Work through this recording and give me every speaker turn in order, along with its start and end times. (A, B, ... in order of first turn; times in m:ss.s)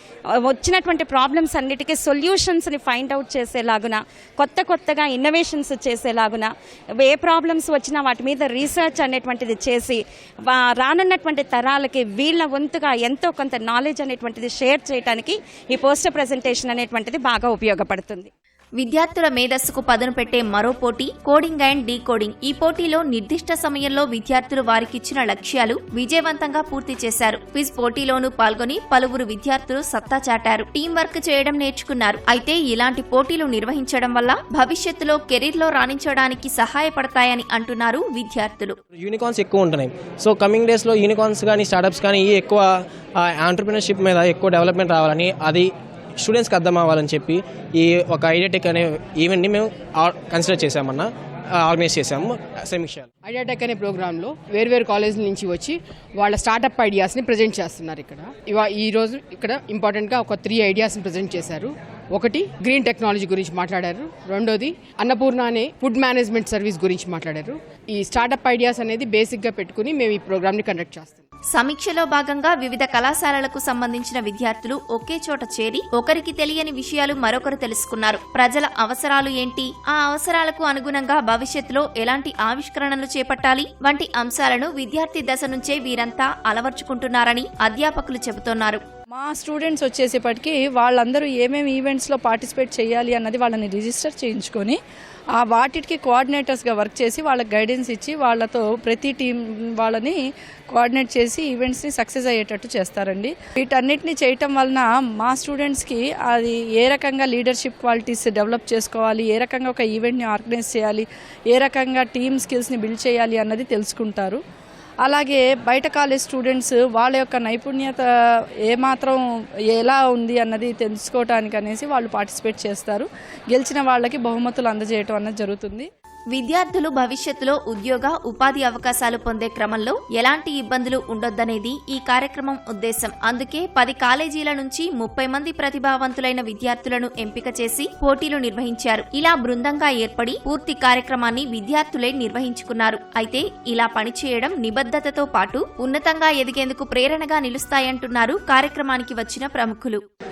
0:00.3-0:18.3 A
0:18.8-0:38.8 B
0:38.9-0:53.1 C
0:53.3-1:11.2 D
1:11.5-1:28.8 B
1:29.2-1:34.8 E
1:35.4-1:40.2 E
1:40.7-1:54.4 E
1:55.0-1:58.1 E
1:58.7-1:59.2 E
1:59.7-2:05.9 E
2:06.3-2:30.0 B